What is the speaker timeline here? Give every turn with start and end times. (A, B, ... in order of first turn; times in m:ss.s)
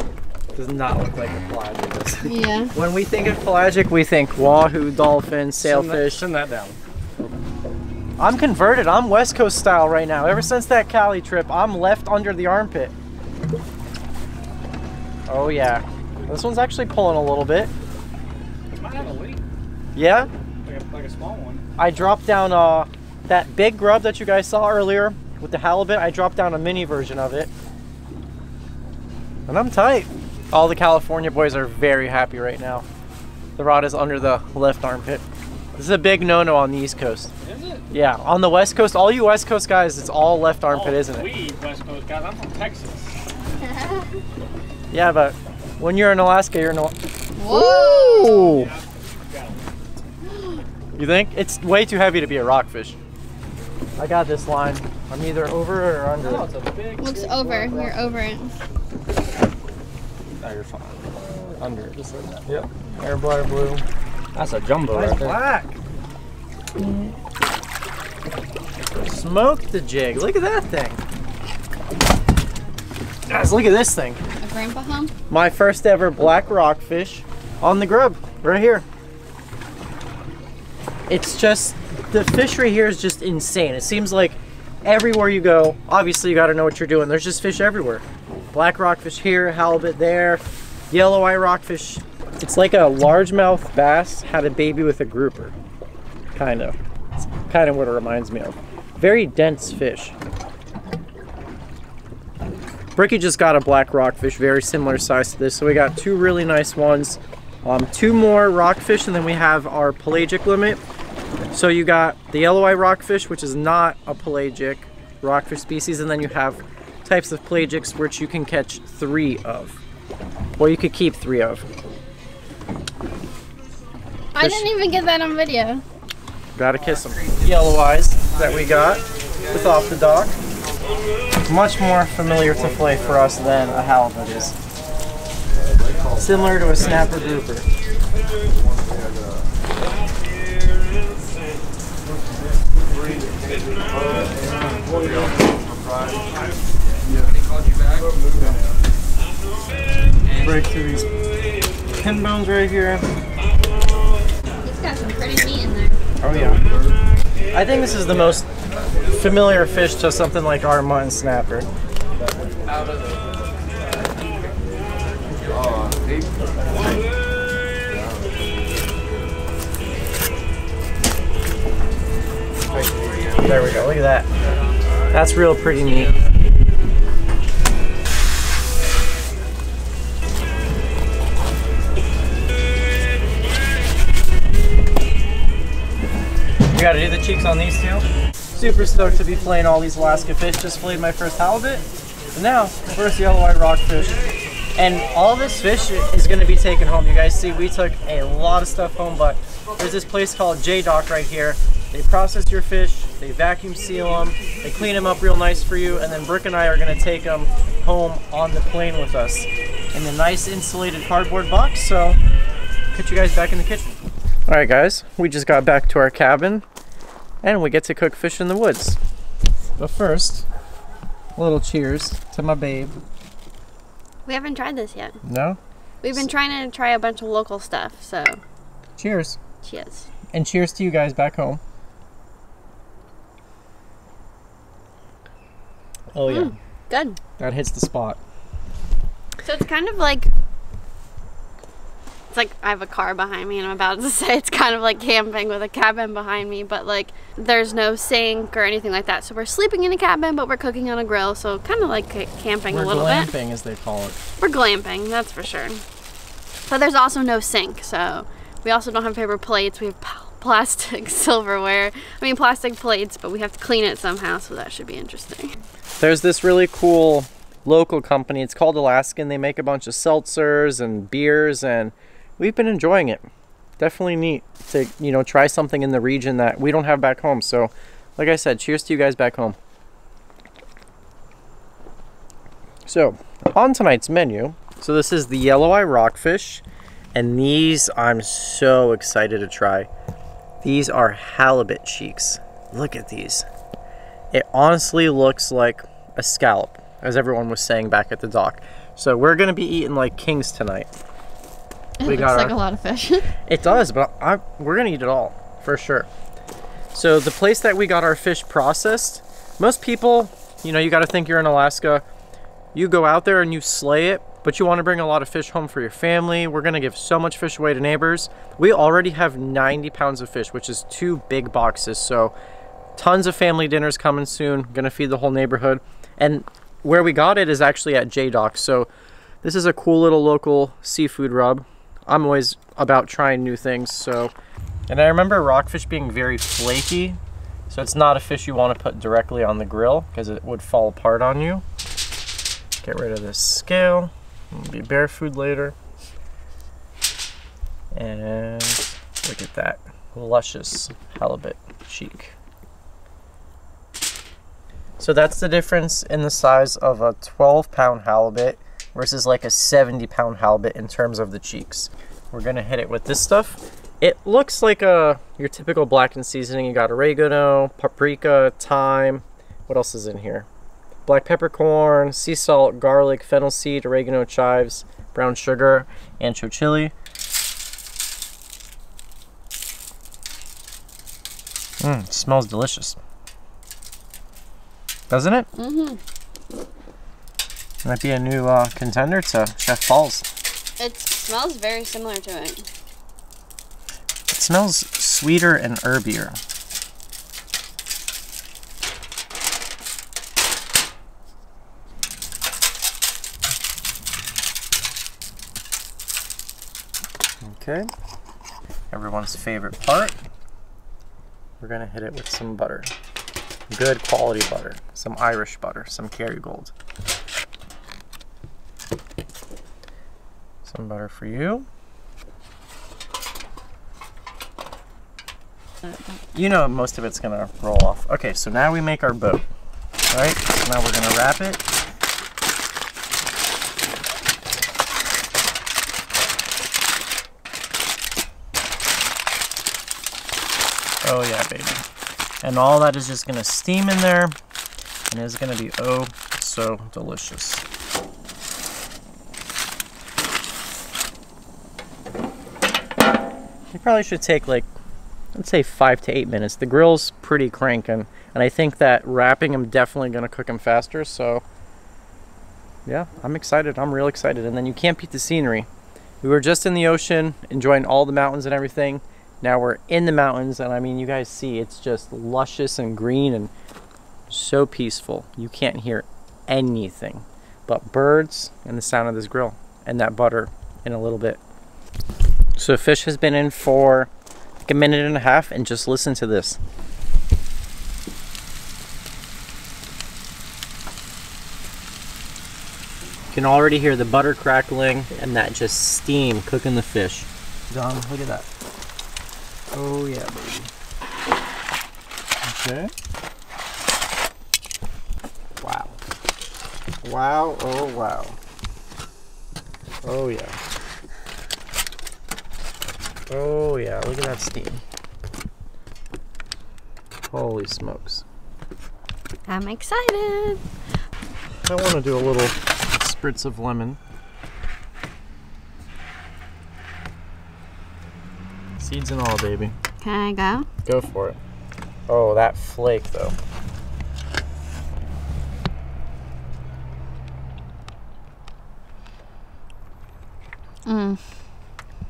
0:00.5-0:06.2 A
0:02.2-0:02.7 B
0:05.6-0:07.3 C
0:08.2-0:12.9 A
0:15.3-0:17.7 A
0:18.7-0:19.4 C
0:19.9-0:20.3 A
0:20.6-0:21.6 C
0:21.8-0:27.5 A
0:29.5-0:32.8 A
0:33.6-0:35.2 A
0:35.7-0:37.3 A
0:37.4-0:37.8 C
0:37.9-0:41.3 A
0:40.6-0:43.2 C
0:43.6-0:44.0 B
0:44.9-0:47.0 A
0:47.4-0:48.6 B
0:47.5-0:48.7 A
0:48.4-0:49.7 C
0:51.0-0:53.0 A
0:54.0-0:56.5 A
0:56.2-0:58.1 C
0:57.0-0:58.5 B
1:00.4-1:03.8 C
1:04.3-1:05.4 C
1:04.9-1:05.8 A
1:09.0-1:11.0 A
1:13.3-1:14.2 A
1:14.4-1:15.1 B
1:15.3-1:18.8 A
1:21.1-1:35.6 A
1:36.3-1:40.2 A
1:42.9-1:50.8 A
1:51.5-1:59.8 A
2:00.6-2:01.7 A
2:04.3-2:05.8 B
2:04.4-2:04.7 A
2:06.6-2:10.4 A
2:11.4-2:14.6 A
2:16.2-2:17.7 A
2:30.3-2:30.6 C
2:30.4-2:31.1 A
2:32.0-2:33.0 A
2:34.6-2:36.0 B
2:36.2-2:36.6 A
2:37.5-2:38.5 A
2:39.1-2:41.7 A
2:53.4-2:54.3 A
2:55.1-2:56.1 A
3:06.7-3:14.2 A
3:14.7-3:32.2 A
3:32.9-3:36.6 A
3:37.4-3:39.0 A
3:39.8-3:40.4 A
3:41.4-3:43.0 A
3:44.2-3:45.2 B
3:45.2-3:45.6 A
3:46.0-3:48.4 B
3:49.0-3:49.4 A
3:49.6-3:50.1 B
3:50.3-3:51.6 A
3:56.1-3:56.6 A
3:56.2-3:57.2 B
3:57.4-3:58.2 A
3:59.4-4:00.3 B
4:02.3-4:13.3 B
4:12.7-4:14.2 A
4:14.4-4:15.8 B
4:16.7-4:25.6 B
4:26.0-4:33.3 A
4:33.8-4:39.6 A
4:42.8-4:49.9 A
4:50.6-4:53.4 A
4:54.3-5:00.9 A
5:02.0-5:03.3 B
5:02.0-5:02.6 A
5:03.4-5:06.1 A
5:06.9-5:12.0 A
5:12.7-5:22.3 A
5:23.0-5:28.9 A
5:29.4-5:34.3 A
5:34.9-5:41.6 A
5:42.8-5:45.7 A
5:47.9-5:52.4 A
5:55.0-6:10.5 A
6:11.0-6:16.9 A
6:21.8-6:23.0 A
6:25.1-6:25.5 A
6:25.6-6:26.0 B
6:27.8-6:30.3 A
6:30.8-6:32.7 B
6:34.3-6:36.4 A
6:47.4-6:47.9 A
6:48.9-6:50.2 A
6:51.6-6:52.9 A
6:53.7-6:56.7 A
7:00.6-7:01.7 A
7:05.8-7:06.2 B
7:06.3-7:09.5 A
7:10.1-7:11.6 A
7:21.0-7:21.8 A
7:22.4-7:24.4 A
7:25.1-7:27.6 A
7:33.7-7:34.7 A
7:35.3-7:41.4 A
7:42.8-7:45.7 A
7:46.2-7:53.5 A
7:54.3-8:01.4 A
8:02.5-8:04.1 A
8:04.6-8:06.6 A
8:13.3-8:18.5 A
8:19.7-8:20.7 A
8:22.4-8:22.9 A
8:25.6-8:26.0 A
8:27.0-8:28.4 A
8:30.0-8:30.6 A
8:33.3-8:34.8 A
8:37.3-8:38.2 A
8:39.5-8:40.6 B
8:41.6-8:44.0 A
8:48.8-8:49.8 A
8:50.0-8:50.7 B
8:50.8-8:51.4 A
8:52.1-8:53.4 A
9:00.8-9:01.2 B